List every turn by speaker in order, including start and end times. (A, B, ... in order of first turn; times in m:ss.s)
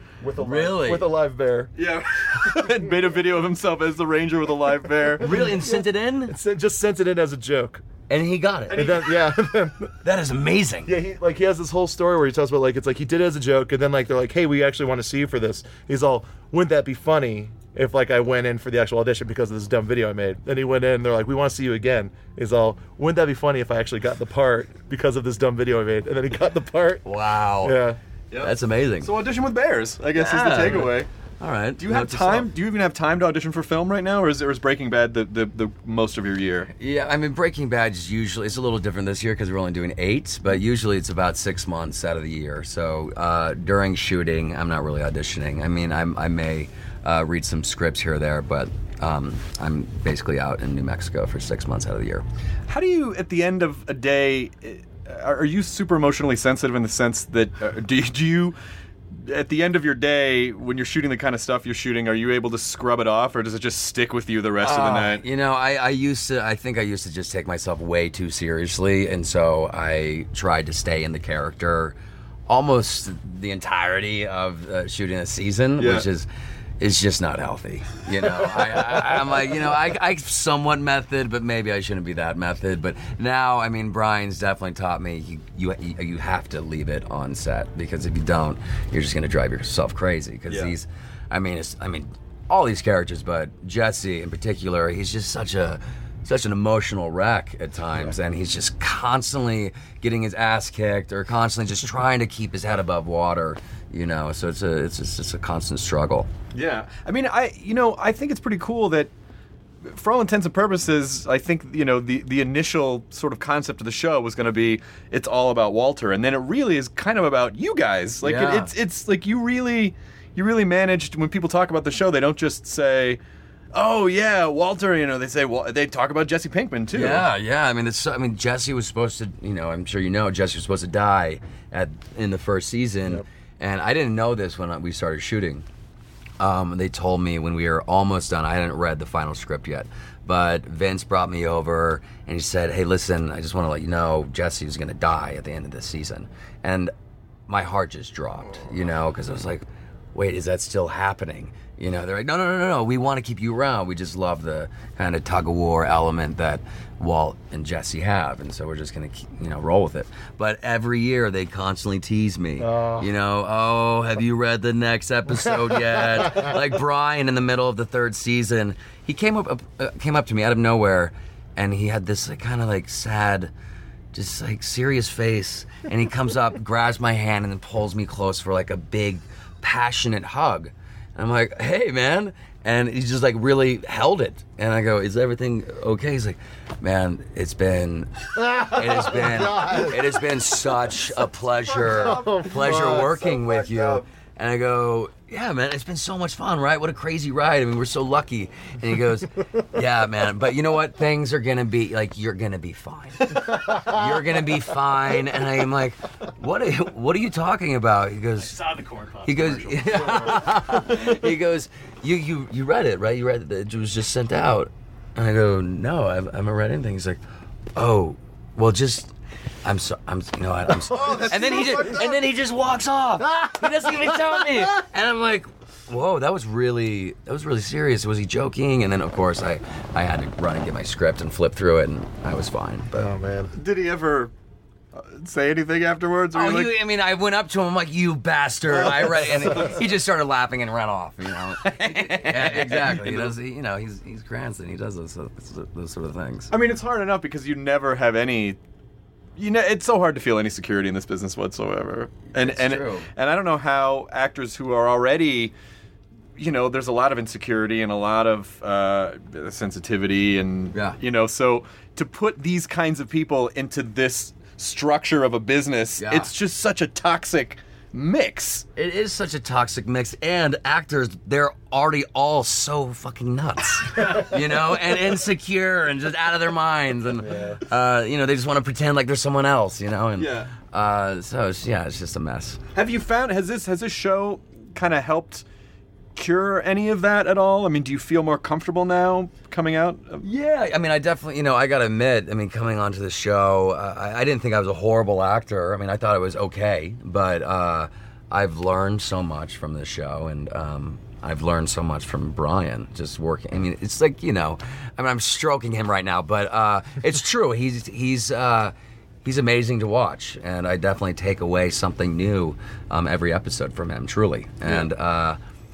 0:00.2-0:01.7 A
0:00.4-0:01.1 B
0:01.8-0:05.3 C
0:05.2-0:06.3 B
0:05.2-0:07.8 A
0:08.1-0:09.1 B
0:08.7-0:09.0 C
0:08.7-0:09.9 A
0:10.0-0:10.9 B
0:10.8-0:27.0 A
0:27.0-0:27.8 B
0:27.6-0:28.0 A
0:28.3-0:31.1 C
0:28.4-0:29.1 B
0:30.1-0:32.5 B
0:31.8-0:36.7 C
0:36.7-0:52.2 B
0:52.7-0:58.6 C
0:59.2-1:05.2 C
1:04.6-1:12.0 B
1:12.5-1:16.3 B
1:15.8-1:16.1 C
1:16.8-1:46.3 B
1:30.5-1:30.7 C
1:46.5-1:49.1 C
1:49.8-2:03.2 C
1:58.2-1:58.7 B
2:03.7-2:07.3 C
2:06.9-2:15.6 B
2:16.4-2:26.9 B
2:27.5-2:53.5 B
2:42.6-2:43.1 A
2:46.1-2:46.5 A
2:54.1-3:28.6 B
3:08.4-3:10.3 A
3:11.6-3:14.0 C
3:11.8-3:13.3 A
3:23.7-3:23.9 A
3:28.4-3:30.6 D
3:29.2-3:37.2 B
3:37.7-3:39.1 B
3:39.6-3:52.9 B
3:40.8-3:42.1 A
3:41.0-3:42.1 C
3:43.3-3:43.6 A
3:52.9-3:53.5 A
3:53.5-3:54.3 C
3:54.9-3:56.8 C
3:56.3-4:06.5 B
4:01.9-4:03.3 C
4:06.5-4:08.6 C
4:09.4-4:15.5 C
4:12.3-4:13.1 B
4:16.4-4:28.6 C
4:20.7-4:21.0 B
4:26.0-4:26.3 B
4:28.7-4:42.6 B
4:37.2-4:37.6 A
4:40.2-4:40.5 C
4:42.7-4:45.4 C
4:46.1-4:50.2 C
4:50.2-5:15.4 B